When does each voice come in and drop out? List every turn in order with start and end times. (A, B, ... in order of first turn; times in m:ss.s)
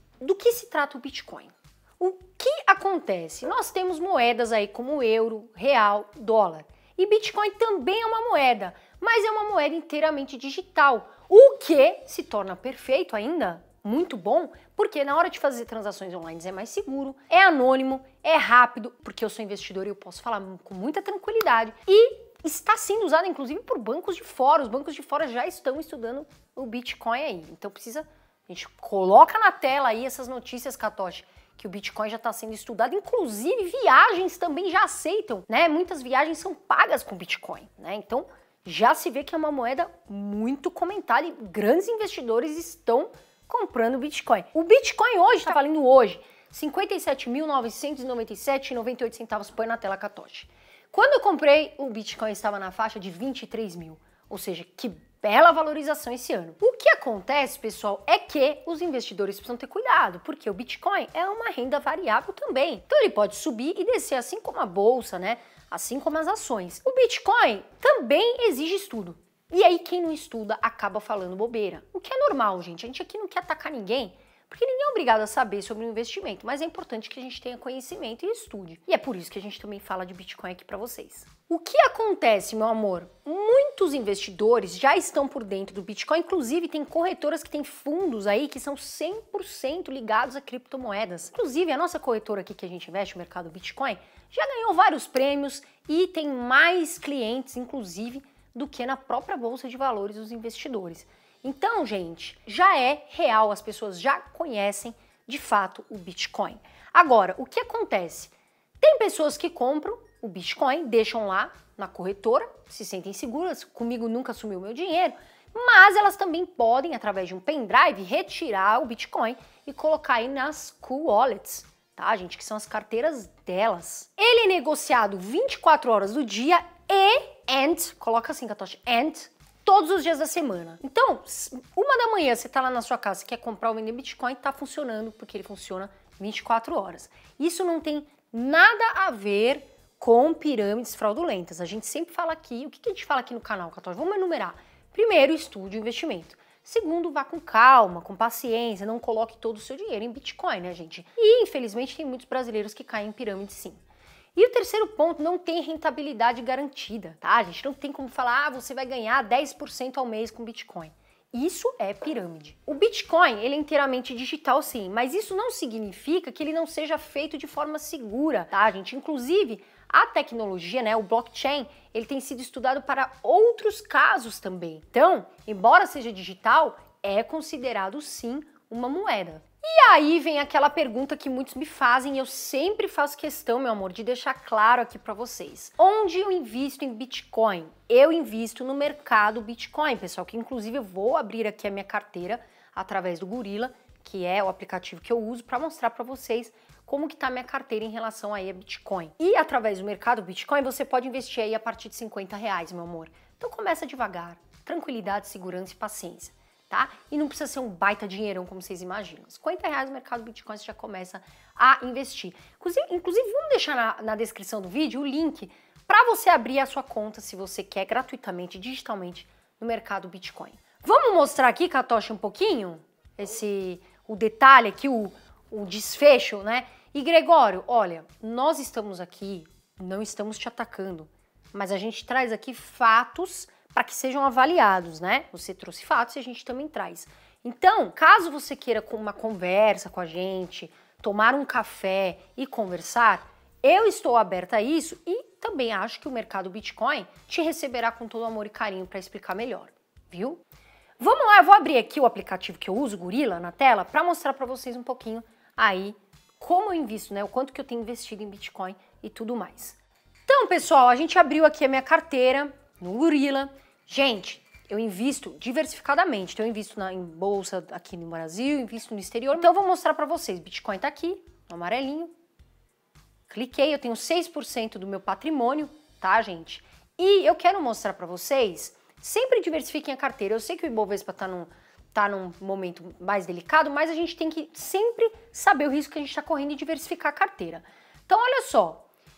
0:00.2-2:33.8 A
2:34.4-4:10.4 A
4:11.0-4:32.1 A
4:33.3-4:48.8 A